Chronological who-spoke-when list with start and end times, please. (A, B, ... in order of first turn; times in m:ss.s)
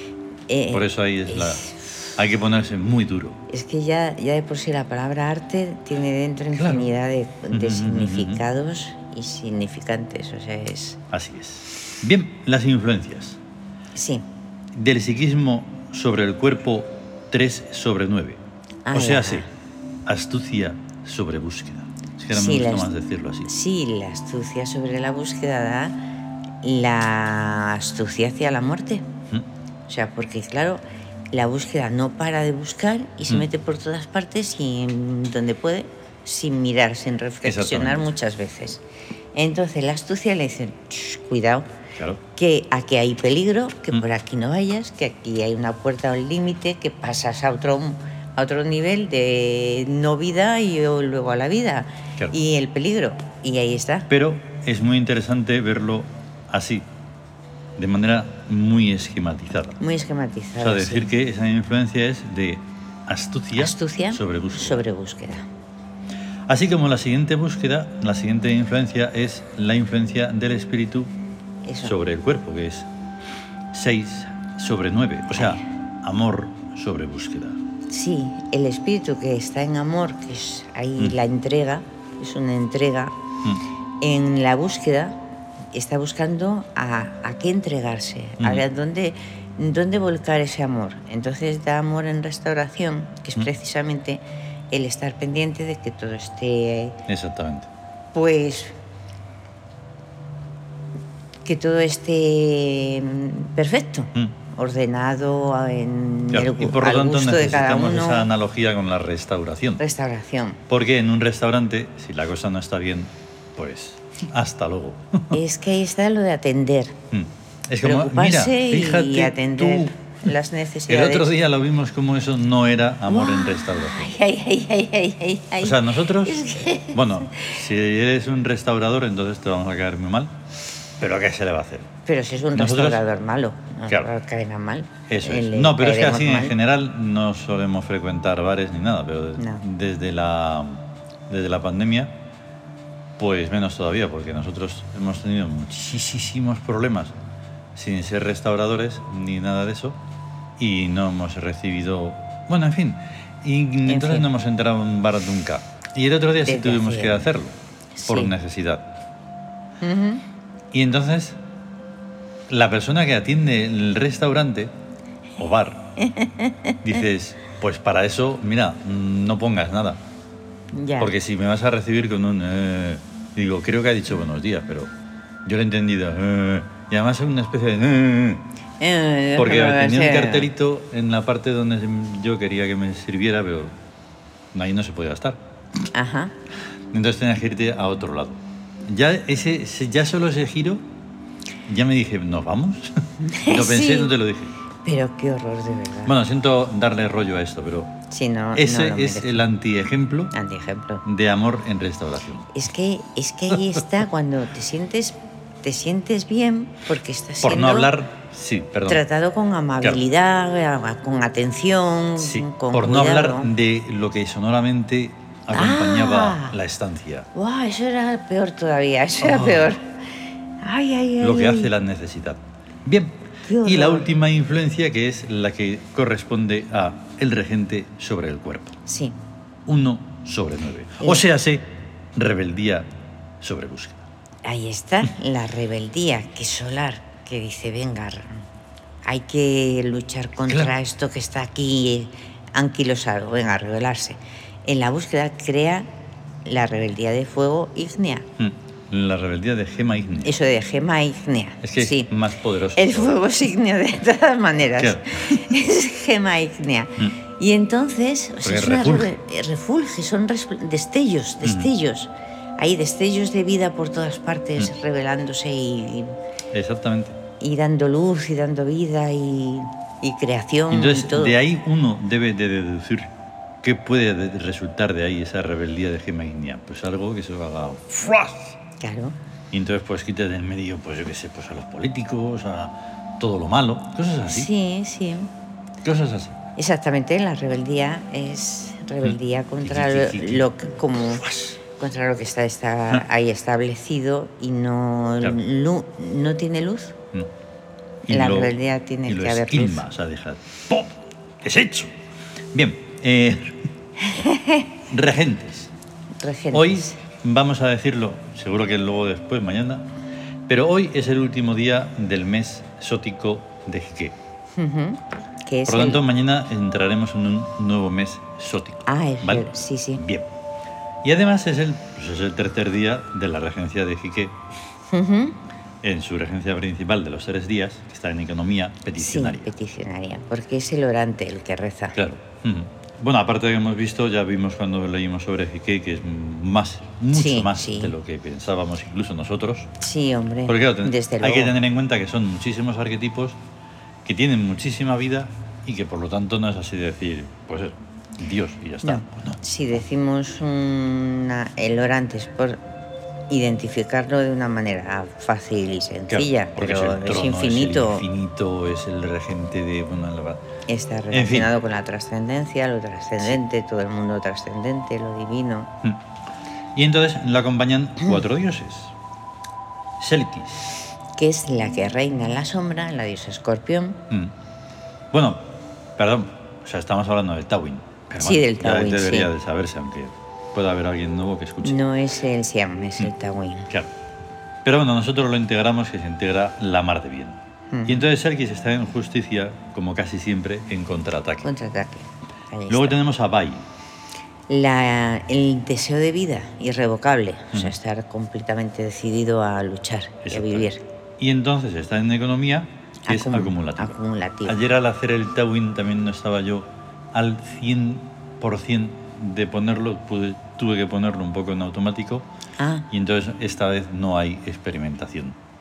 0:00.5-0:01.9 A
0:00.7-0:03.4 B
0:03.5-0:11.0 A
0:06.5-0:06.9 B
0:07.5-0:08.4 B
0:11.1-0:13.4 B
0:13.9-0:14.2 A
0:14.7-0:18.4 B
0:18.8-0:19.5 A
0:18.9-0:19.4 B
0:20.0-0:23.5 B
0:22.3-0:22.9 A
0:23.4-0:26.0 A
0:26.6-0:29.1 A
0:29.9-0:30.8 A
0:31.3-0:38.8 A
0:37.4-0:38.1 B
0:39.3-0:41.7 A
0:42.3-0:54.1 A
0:54.1-0:56.8 B
0:57.8-0:59.8 B
0:59.8-1:01.1 A
1:00.6-1:04.8 B
1:03.5-1:05.4 A
1:06.5-1:11.1 B
1:11.6-1:11.9 A
1:11.8-1:12.9 B
1:13.7-1:17.6 B
1:15.3-1:15.6 A
1:17.9-1:23.1 A
1:24.0-1:25.2 A
1:25.7-1:37.0 A
1:28.4-1:28.6 B
1:37.1-1:37.7 B
1:38.1-1:38.7 A
1:41.4-1:48.3 A
1:46.3-1:49.8 B
1:49.8-1:50.6 A
1:50.7-1:55.4 B
1:55.3-1:57.0 A
1:57.1-1:59.9 B
1:57.8-2:01.3 A
2:00.9-2:04.1 B
2:03.1-2:07.6 A
2:05.6-2:06.4 B
2:06.9-2:10.3 B
2:11.0-2:11.9 B
2:12.0-2:16.5 A
2:12.5-2:13.0 B
2:15.1-2:22.1 B
2:19.4-2:19.6 A
2:23.2-2:27.1 B
2:27.7-2:30.0 B
2:30.6-2:37.5 B
2:33.8-2:34.3 A
2:36.4-2:37.3 A
2:38.0-2:38.3 A
2:38.1-2:38.9 B
2:39.8-2:40.2 A
2:40.7-2:41.4 B
2:42.5-2:44.7 B
2:45.4-2:45.9 B
2:46.0-2:46.8 A
2:46.8-2:50.0 B
2:50.7-2:51.1 A
2:51.0-2:54.9 B
2:55.4-2:58.4 B
2:58.8-3:00.5 A
2:59.4-3:03.7 B
3:04.5-3:05.4 B
3:05.9-3:06.3 A
3:06.9-3:10.8 B
3:11.7-3:14.5 B
3:13.2-3:14.1 A
3:14.8-3:16.1 A
3:16.0-3:17.9 B
3:18.1-3:19.4 A
3:18.5-3:20.3 B
3:20.3-3:21.0 A
3:21.0-3:22.5 B
3:22.5-3:27.9 A
3:27.4-3:29.0 B
3:28.9-3:33.5 A
3:32.2-3:37.3 B
3:35.5-3:36.6 A
3:37.3-3:40.0 A
3:39.2-3:39.7 B
3:40.6-3:41.7 A
3:41.2-3:48.8 B
3:43.4-3:44.1 A
3:48.8-3:49.2 A
3:49.6-3:52.9 B
3:53.4-3:54.0 B
3:54.4-3:58.4 A
3:59.0-4:05.9 A
4:06.4-4:08.3 A
4:08.4-4:10.4 B
4:10.2-4:12.1 A
4:11.6-4:13.2 B
4:12.7-4:26.2 A
4:14.8-4:15.5 B
4:18.4-4:19.1 B
4:21.4-4:21.7 B
4:26.5-4:27.2 B
4:27.4-4:31.4 A
4:30.7-4:38.6 B
4:38.8-4:39.2 A
4:39.5-4:44.5 B
4:44.3-4:45.3 A
4:45.8-4:46.4 B
4:46.6-4:57.0 A
4:49.0-4:50.5 B
4:51.1-4:51.6 B
4:58.1-4:58.5 B
4:58.1-4:59.8 A
4:59.0-5:01.9 B
5:02.5-5:03.6 B
5:04.0-5:04.7 A
5:04.9-5:05.7 B
5:06.2-5:07.0 A
5:06.5-5:09.8 B
5:10.5-5:14.2 B
5:14.6-5:16.0 A
5:15.7-5:20.3 B
5:18.8-5:20.0 A
5:21.0-5:24.4 B
5:24.9-5:25.4 A
5:25.8-5:29.5 B
5:29.0-5:32.0 A
5:32.0-5:39.7 B
5:37.1-5:37.9 A
5:39.8-5:41.5 A
5:40.5-5:43.4 B
5:44.0-5:49.4 B
5:48.8-5:52.6 A
5:53.3-5:58.0 A
5:56.1-6:00.4 B
6:00.7-6:05.7 A
6:01.1-6:01.5 B
6:06.7-6:08.9 B
6:10.0-6:10.8 B
6:11.2-6:14.0 A
6:15.1-6:21.8 B
6:18.2-6:19.3 A
6:21.6-6:23.7 A
6:24.6-6:31.5 B
6:27.7-6:28.1 A
6:31.4-6:33.0 A
6:32.7-6:33.6 B
6:34.5-6:40.8 A
6:40.2-6:52.2 B
6:43.0-6:44.6 A
6:52.6-6:52.9 A
6:52.9-6:55.3 B